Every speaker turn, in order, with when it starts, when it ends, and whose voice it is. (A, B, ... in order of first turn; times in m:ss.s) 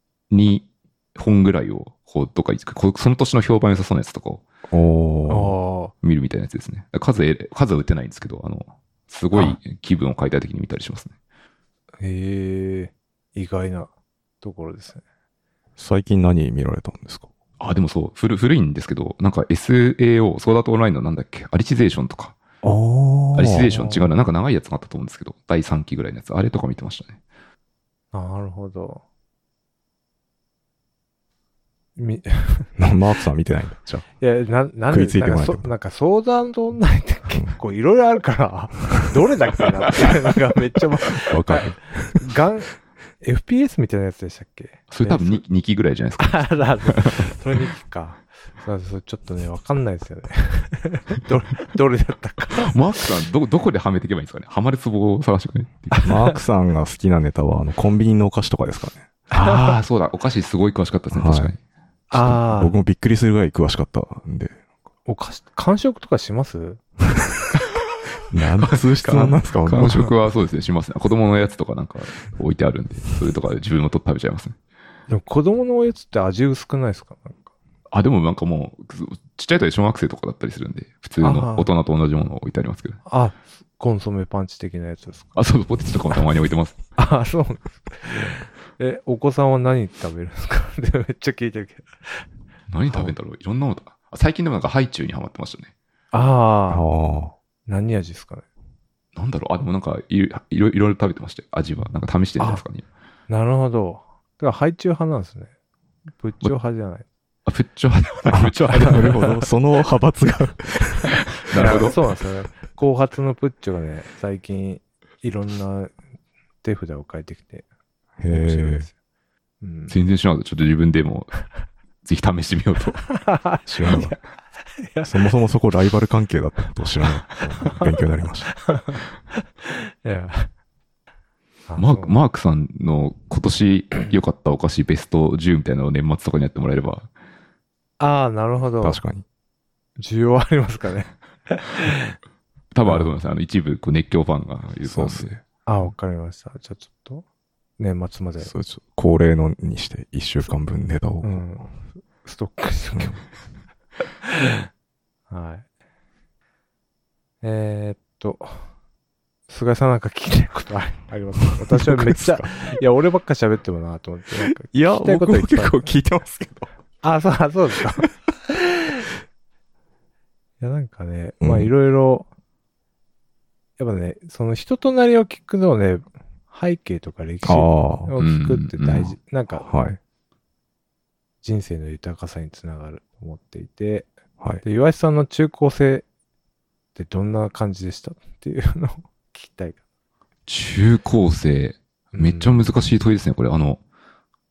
0:00.3-0:04.4 A
0:04.7-0:05.5 B
0:05.3-0:05.9 C
0:06.0-0:11.1 A
0:12.0-0:15.0 C
0:15.8-0:17.3 B
0:17.6-0:22.4 A
0:22.6-0:23.7 B
0:23.3-0:27.2 A
0:23.7-0:24.1 C
0:28.1-0:29.0 C
0:32.0-0:32.7 C
0:32.8-0:34.0 B
0:34.2-0:45.4 C
0:34.9-0:35.7 B
0:41.2-0:42.2 B
0:44.9-0:47.3 A
0:46.2-0:52.7 C
0:52.5-0:56.1 A
0:56.0-0:56.3 C
0:56.0-0:59.1 B
0:59.3-1:01.6 A
0:59.3-0:59.8 C
1:01.1-1:01.5 B
1:02.1-1:02.7 C
1:02.1-1:04.6 B
1:05.0-1:06.8 C
1:08.3-1:10.1 B
1:08.7-1:14.6 A
1:15.1-1:17.5 C
1:17.9-1:23.0 A
1:21.2-1:21.7 C
1:23.0-1:25.4 C
1:25.3-1:26.8 A
1:27.0-1:32.2 C
1:32.7-1:35.7 A
1:36.1-1:36.8 C
1:36.7-1:37.3 B
1:37.6-1:38.4 C
1:39.1-1:42.8 A
1:43.3-1:45.5 C
1:46.2-1:47.0 C
1:47.4-1:49.1 A
1:48.3-1:51.2 B
1:48.7-1:49.4 C
1:51.4-1:52.0 A
1:51.5-1:55.9 C
1:56.6-1:57.6 C
1:58.2-1:58.8 B
1:58.3-1:58.9 C
1:59.6-1:59.9 C
1:59.9-2:01.3 A
2:02.0-2:03.0 A
2:03.1-2:04.2 C
2:03.6-2:04.2 B
2:04.8-2:05.2 C
2:05.0-2:08.6 B
2:07.0-2:07.9 C
2:08.5-2:10.5 C
2:11.7-2:12.2 C
2:11.8-2:17.1 A
2:18.0-2:19.0 C
2:18.8-2:19.2 B
2:20.0-2:22.2 C
2:22.7-2:25.4 A
2:24.8-2:25.4 B
2:25.6-2:27.2 C
2:27.8-2:28.5 C
2:28.4-2:31.4 B
2:31.2-2:33.2 C
2:34.3-2:34.6 C
2:35.3-2:35.6 C
2:37.4-2:38.7 C
2:39.5-2:45.8 C
2:41.7-2:42.5 B
2:44.4-2:46.7 B
2:47.0-2:48.1 C
2:50.6-2:52.3 C
2:51.4-2:51.7 B
2:53.8-2:59.9 C
2:57.4-2:58.1 B
2:58.2-2:59.1 A
2:59.6-3:00.0 B
3:01.4-3:04.1 C
3:04.6-3:06.0 C
3:07.0-3:09.8 C
3:10.5-3:13.8 A
3:12.1-3:12.7 C